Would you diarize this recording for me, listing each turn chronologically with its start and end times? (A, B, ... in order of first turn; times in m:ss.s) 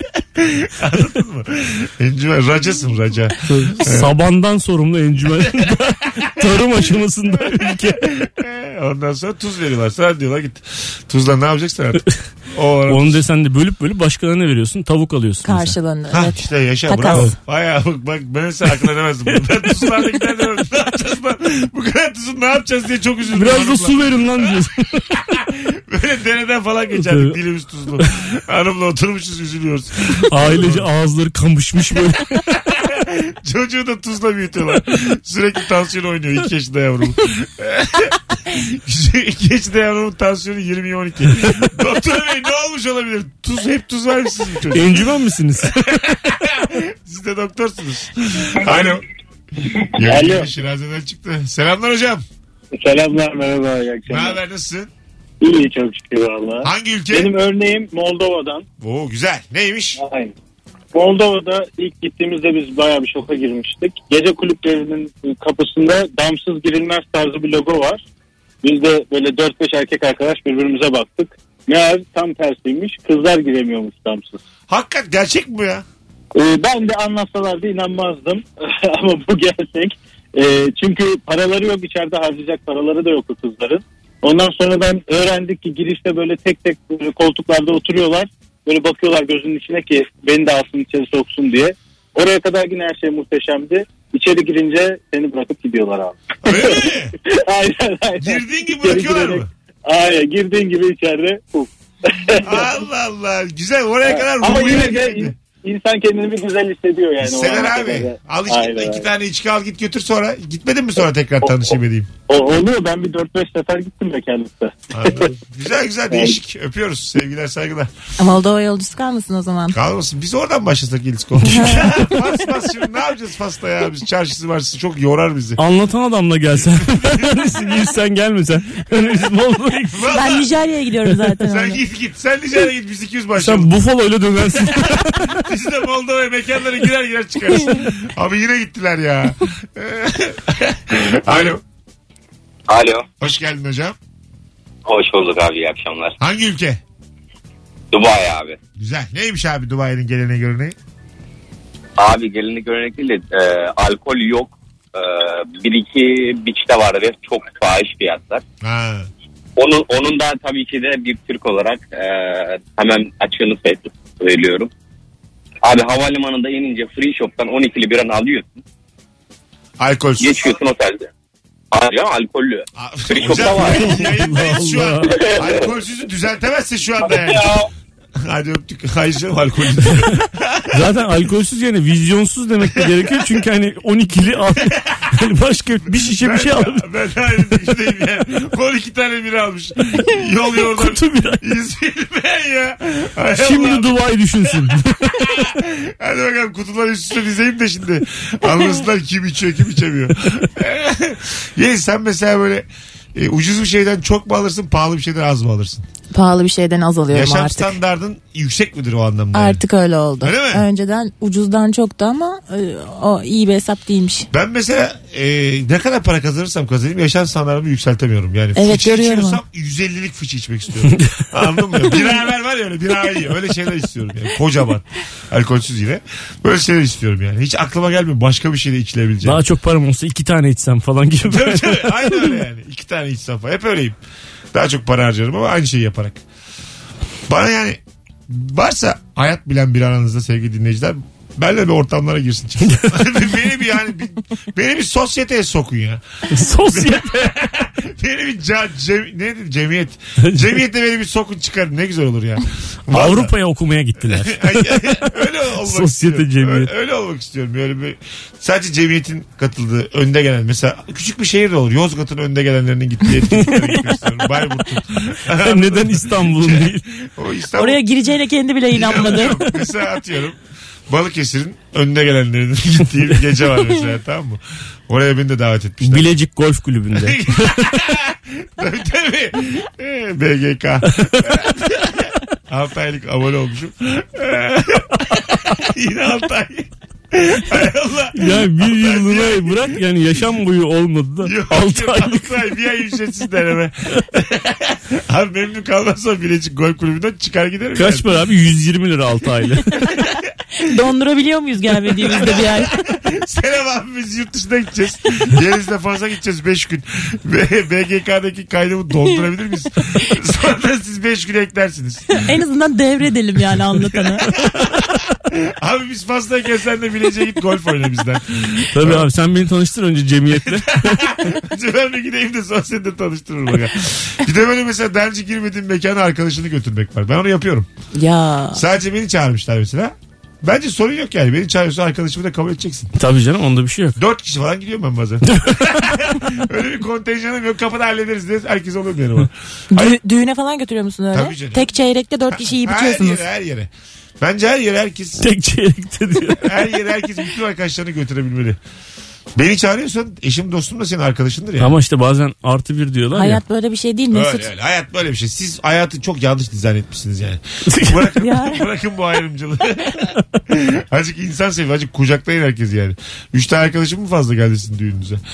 0:00.4-0:04.1 A
0:03.4-0:08.0 B
0:07.4-0:13.2 A
0:12.9-0:15.7 B
0:15.4-0:17.3 C
0:16.1-0:30.9 A
0:23.3-0:25.0 B
0:27.0-0:27.4 B
0:30.1-0:32.4 B
0:32.5-0:45.1 A
0:44.7-0:46.1 B
0:45.6-0:49.0 A
0:49.8-0:50.5 D
0:49.9-0:52.2 A
0:52.7-0:54.4 D
0:54.1-0:54.9 A
0:55.4-0:58.6 D
0:56.6-0:57.3 A
0:58.8-1:00.0 A
1:00.0-1:00.3 D
1:00.9-1:08.0 D
1:08.6-1:14.4 D
1:14.7-1:15.8 A
1:16.3-1:42.8 D
1:36.4-1:37.1 A
1:38.2-1:39.5 A
1:42.4-1:45.3 A
1:44.0-1:49.0 D
1:47.2-1:52.1 A
1:51.4-1:51.7 D
1:52.3-1:55.3 D
1:54.9-1:57.9 A
1:56.1-1:56.4 D
1:58.2-1:59.8 C
1:59.7-2:05.6 A
2:01.4-2:02.2 C
2:05.6-2:10.1 B
2:06.9-2:07.5 A
2:09.9-2:10.5 A
2:10.1-2:11.8 C
2:11.4-2:13.7 A
2:13.4-2:15.4 B
2:14.6-2:21.6 A
2:22.7-2:23.1 E
2:23.2-2:24.0 A
2:24.8-2:26.2 E
2:26.2-2:26.8 A
2:27.9-2:28.6 E
2:28.8-2:30.7 A
2:32.0-2:38.4 E
2:38.6-2:39.1 A
2:39.6-2:44.7 E
2:45.6-2:48.6 E
2:49.8-2:50.5 A
2:50.2-2:51.1 E
2:51.7-2:54.0 E
2:52.8-2:57.7 A
2:53.3-2:55.3 B
2:58.2-3:00.9 A
3:00.7-3:06.8 B
3:02.6-3:03.1 A
3:04.7-3:05.1 A
3:05.9-3:14.0 A
3:10.6-3:11.4 B
3:13.3-3:15.4 B
3:14.5-3:25.9 A
3:26.1-3:27.7 C
3:27.1-3:29.6 A
3:29.3-3:34.3 C
3:30.2-3:30.6 A
3:34.3-3:49.4 A
3:38.6-3:39.4 C
3:49.2-3:52.3 B
3:51.2-3:54.0 A
3:54.5-3:56.2 A
3:57.3-4:13.3 A
4:06.3-4:07.2 B
4:10.2-4:10.5 B
4:12.9-4:16.7 B
4:14.0-4:27.8 A
4:25.4-4:26.8 B
4:27.6-4:29.5 C
4:28.7-4:36.1 A
4:35.8-4:37.8 B
4:36.9-4:49.8 A
4:41.1-4:41.3 B
4:48.1-4:52.3 B
4:51.2-4:58.1 A
4:57.7-4:59.9 B
5:00.6-5:02.8 C
5:02.0-5:12.3 A
5:12.1-5:14.3 C
5:14.1-5:19.1 A
5:18.7-5:21.1 B
5:20.4-5:27.7 A
5:27.9-5:28.6 C
5:28.5-5:32.9 A
5:32.9-5:34.0 B
5:34.0-5:39.9 A
5:35.3-5:35.9 B
5:39.7-5:43.2 C
5:41.1-5:41.7 A
5:42.3-5:45.2 A
5:45.2-5:46.6 B
5:46.4-5:48.6 A
5:49.4-5:51.8 A
5:51.6-5:53.4 B
5:53.1-5:54.5 C
5:54.1-6:05.2 A
5:57.7-5:58.0 B
5:58.2-5:58.7 C